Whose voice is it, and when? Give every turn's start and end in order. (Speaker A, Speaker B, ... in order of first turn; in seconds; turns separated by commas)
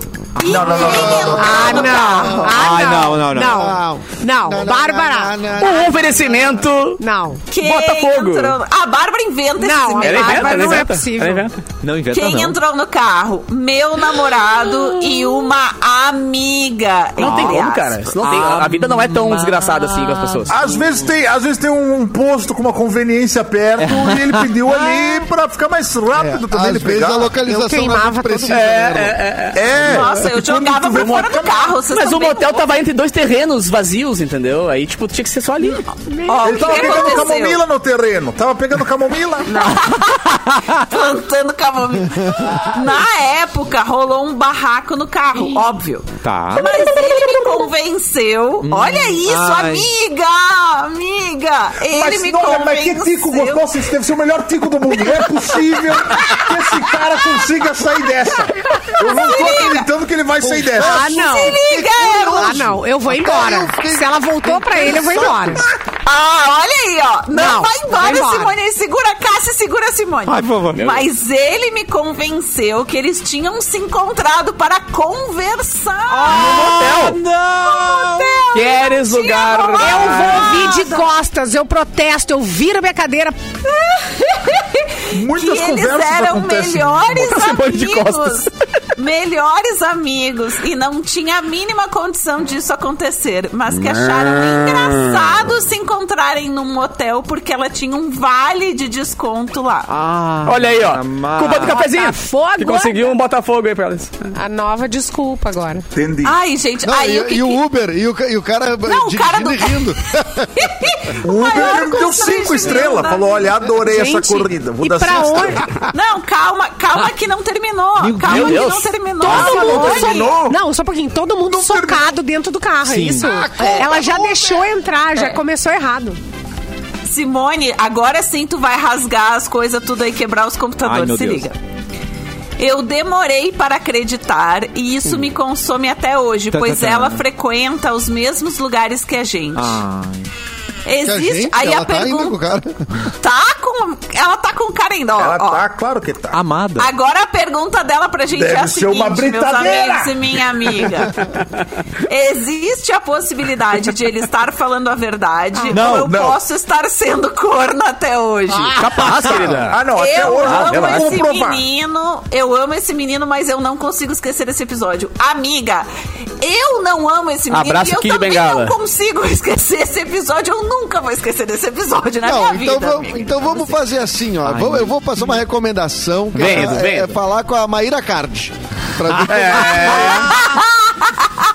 Speaker A: 0.4-0.6, Speaker B: 0.4-2.6, Speaker C: 0.4-1.9, Speaker D: 0.7-2.5, Speaker E: 1.3-5.3, Speaker A: 2.5-3.8, Speaker D: 3.4-6.5, Speaker F: 5.6-7.0, Speaker E: 7.0-7.4, Speaker B: 7.5-10.9, Speaker F: 7.6-8.6, Speaker E: 9.6-11.5, Speaker F: 10.0-11.6, Speaker A: 11.8-12.6, Speaker B: 12.1-18.2, Speaker F: 17.2-20.6, Speaker A: 17.2-17.6, Speaker A: 18.2-20.8, Speaker C: 20.5-27.3, Speaker A: 23.8-25.1, Speaker D: 26.1-29.2, Speaker E: 27.4-28.6, Speaker F: 28.5-29.7, Speaker C: 29.5-31.7, Speaker B: 29.8-32.7, Speaker F: 31.8-35.8, Speaker E: 36.1-37.2, Speaker B: 36.2-37.6, Speaker C: 36.4-39.7, Speaker B: 39.5-53.7, Speaker A: 40.5-40.8, Speaker A: 46.2-46.8, Speaker A: 48.6-49.9, Speaker C: 51.9-61.1, Speaker B: 55.0-55.2, Speaker B: 56.1-56.8, Speaker B: 58.8-59.9, Speaker D: 60.4-65.7, Speaker E: 60.8-61.6, Speaker B: 61.0-62.6, Speaker E: 62.3-65.6, Speaker B: 66.0-77.1, Speaker E: 67.3-68.5, Speaker A: 70.2-70.9, Speaker F: 70.7-71.0, Speaker A: 76.1-78.5, Speaker F: 76.3-77.2, Speaker B: 77.6-81.1, Speaker F: 78.5-80.3, Speaker E: 79.7-83.4, Speaker B: 83.8-99.9, Speaker C: 85.1-87.1, Speaker F: 87.1-88.5, Speaker F: 93.8-95.2, Speaker A: 99.9-101.8, Speaker F: 100.5-104.3, Speaker E: 101.6-103.2, Speaker E: 104.3-105.8, Speaker C: 105.9-106.3, Speaker B: 106.2-107.6, Speaker D: 106.8-110.7, Speaker B: 108.8-109.9, Speaker B: 110.5-113.5, Speaker C: 111.2-115.8, Speaker E: 113.8-115.6, Speaker B: 115.9-120.3, Speaker A: 118.0-118.7, Speaker F: 118.2-119.8, Speaker E: 119.2-126.2, Speaker C: 119.3-120.6, Speaker C: 121.5-122.1, Speaker A: 122.8-123.4, Speaker D: 123.3-124.2, Speaker B: 123.5-123.9, Speaker B: 127.0-131.6, Speaker A: 130.8-131.4, Speaker B: 132.6-139.8, Speaker A: 136.5-137.2, Speaker A: 139.5-140.2, Speaker B: 140.8-142.4, Speaker D: 141.0-142.9, Speaker B: 143.2-145.6, Speaker C: 145.2-146.4, Speaker A: 146.3-146.9, Speaker B: 146.8-151.2, Speaker C: 148.3-150.2, Speaker B: 152.1-159.3, Speaker E: 155.6-155.9, Speaker A: 155.7-156.1, Speaker C: 156.0-156.4, Speaker F: 158.7-159.8, Speaker C: 159.7-161.6, Speaker B: 159.9-165.9, Speaker F: 160.5-161.1, Speaker B: 166.4-173.8, Speaker F: 167.5-168.7, Speaker D: 172.2-180.2, Speaker A: 174.5-174.9, Speaker F: 176.3-177.2, Speaker A: 179.1-179.8, Speaker F: 179.3-180.4, Speaker B: 179.9-181.1